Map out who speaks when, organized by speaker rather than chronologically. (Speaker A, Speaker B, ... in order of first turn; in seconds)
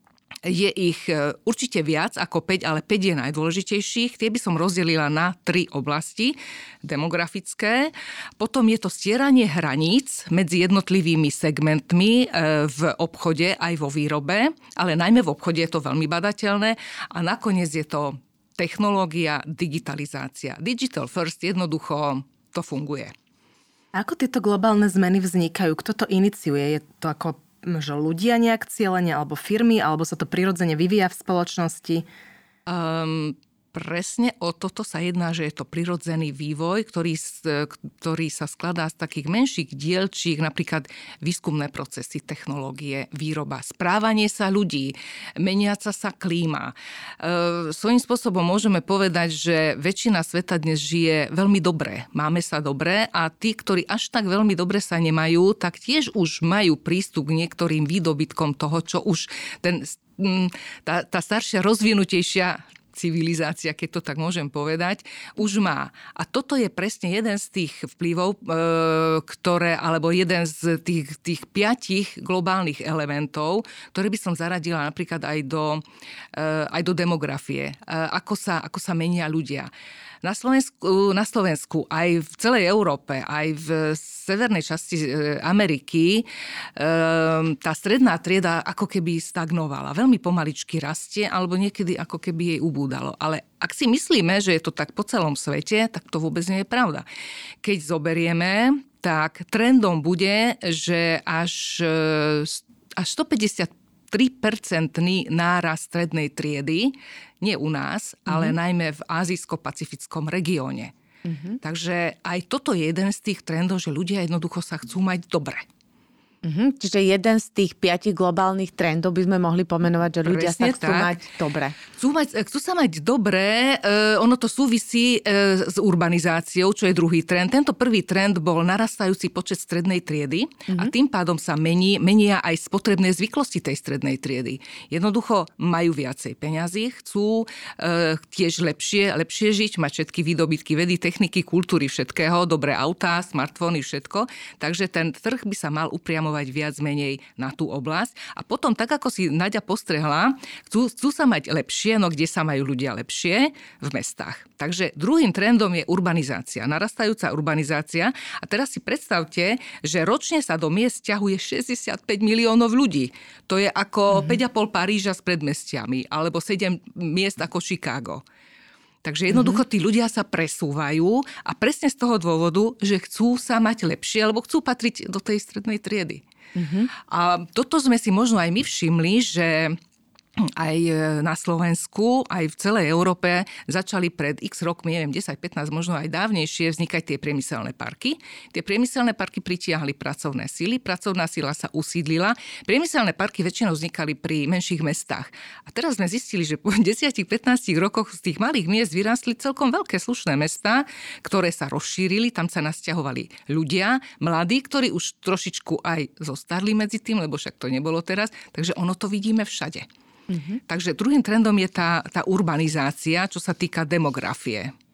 Speaker A: 0.4-23.1, 32.7-75.8, 76.3-79.7, 80.2-97.0, 97.6-110.9, 111.6-115.7, 120.2-121.2, 122.0-168.2, 169.0-176.2, 177.0-179.8, 180.4-209.8, 210.7-214.7
Speaker B: 23.9-32.0
Speaker C: 108.3-108.5, 111.2-111.6, 116.4-121.8, 169.3-169.6, 176.5-176.9, 210.3-210.6